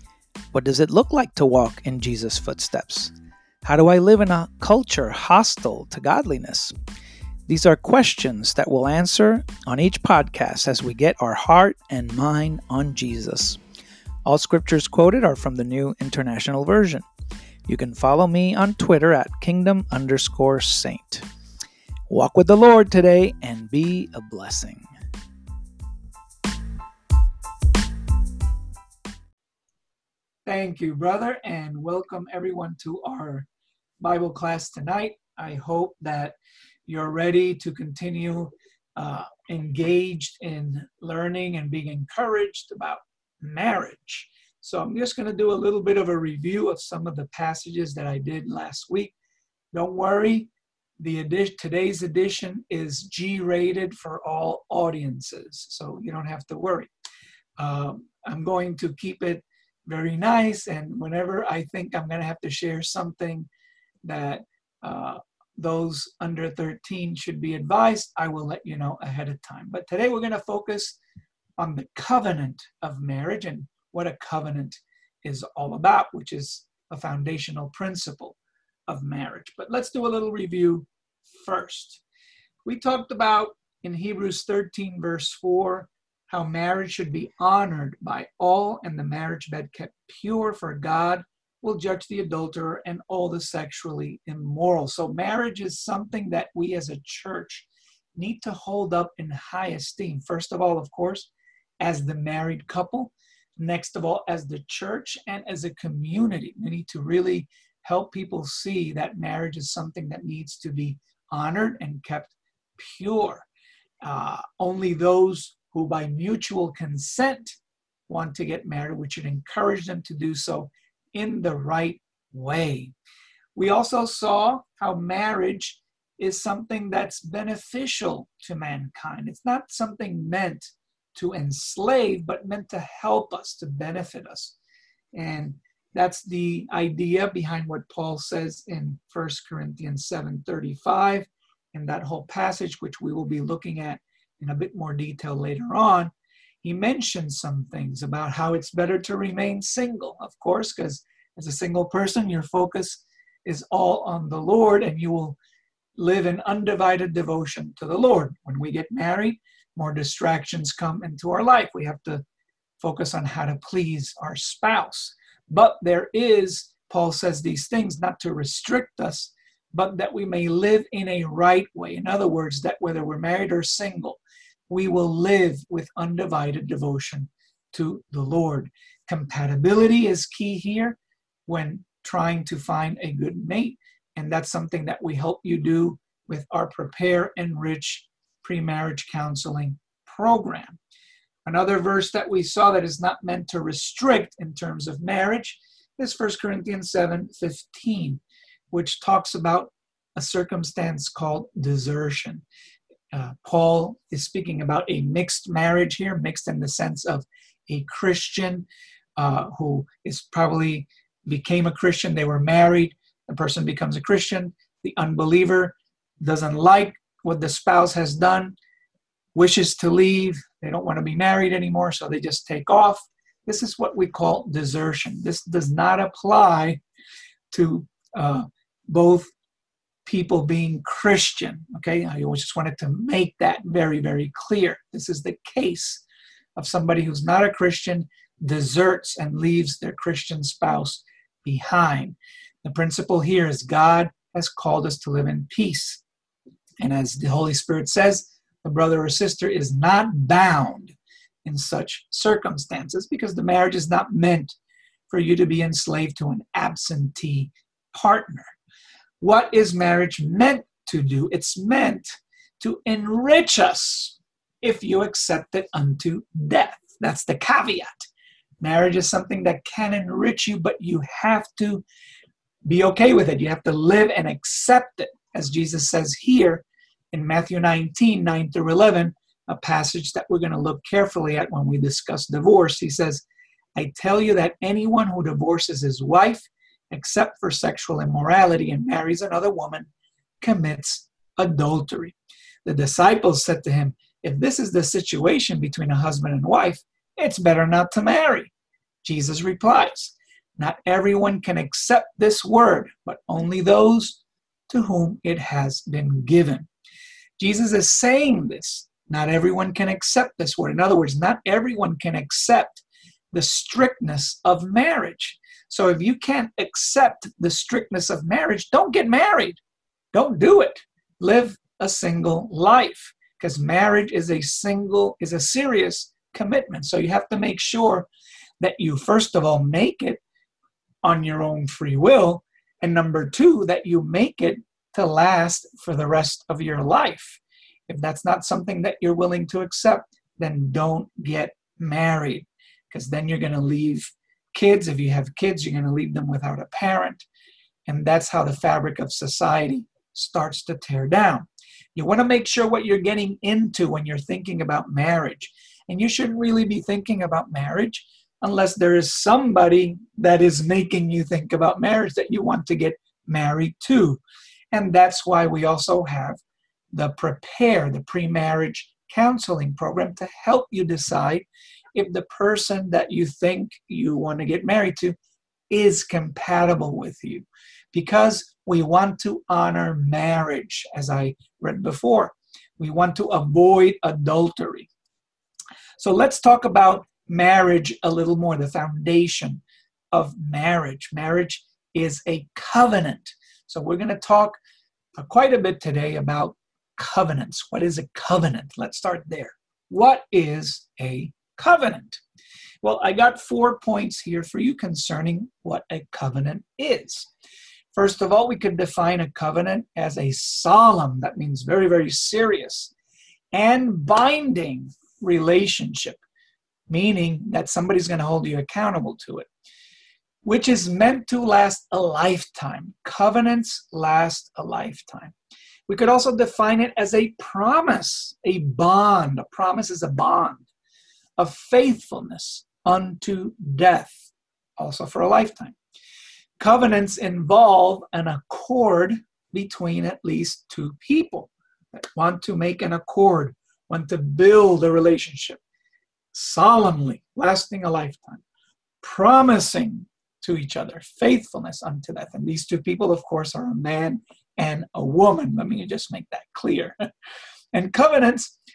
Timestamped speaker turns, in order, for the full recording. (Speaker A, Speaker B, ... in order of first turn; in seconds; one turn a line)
Speaker A: 0.5-6.7
Speaker A: 7.5-13.6
Speaker A: 14.3-17.1
Speaker A: 17.7-21.2
Speaker A: 22.1-24.9
Speaker A: 30.5-33.5
Speaker A: 34.0-36.4
Speaker A: 36.9-49.1
Speaker A: 49.7-56.9
Speaker A: 57.6-63.5
Speaker A: 64.0-71.0
Speaker A: 71.6-78.4
Speaker A: 78.9-80.9
Speaker A: 81.4-82.0
Speaker A: 82.7-101.3
Speaker A: 101.8-113.5
Speaker A: 114.0-122.9
Speaker A: 123.5-134.6
Speaker A: 135.2-155.4
Speaker A: 156.0-162.2
Speaker A: 162.8-190.8
Speaker A: 191.4-202.4
Speaker A: 203.1-208.7
Speaker A: 209.2-218.6
Speaker A: 219.3-226.8
Speaker A: 227.5-229.3
Speaker A: 230.1-236.0
Speaker A: 236.6-246.0
Speaker A: 246.8-254.6
Speaker A: 255.1-258.5
Speaker A: 259.2-268.1
Speaker A: 268.6-271.8
Speaker A: 272.7-283.2
Speaker A: 283.8-289.9
Speaker A: 290.4-298.5
Speaker A: 299.0-306.7
Speaker A: 307.4-319.6
Speaker A: 320.1-328.1
Speaker A: 328.6-330.2
Speaker A: 331.0-347.3
Speaker A: 347.9-364.2
Speaker A: 364.7-366.4
Speaker A: 366.9-375.1
Speaker A: 375.7-384.9
Speaker A: 386.0-394.6
Speaker A: 395.2-402.2
Speaker A: 402.8-407.3
Speaker A: 407.9-412.9
Speaker A: 413.5-416.2
Speaker A: 416.9-419.5
Speaker A: 420.4-425.4
Speaker A: 425.9-430.7
Speaker A: 431.4-435.8
Speaker A: 436.6-445.6
Speaker A: 446.3-448.4
Speaker A: 449.0-456.9
Speaker A: 457.7-458.6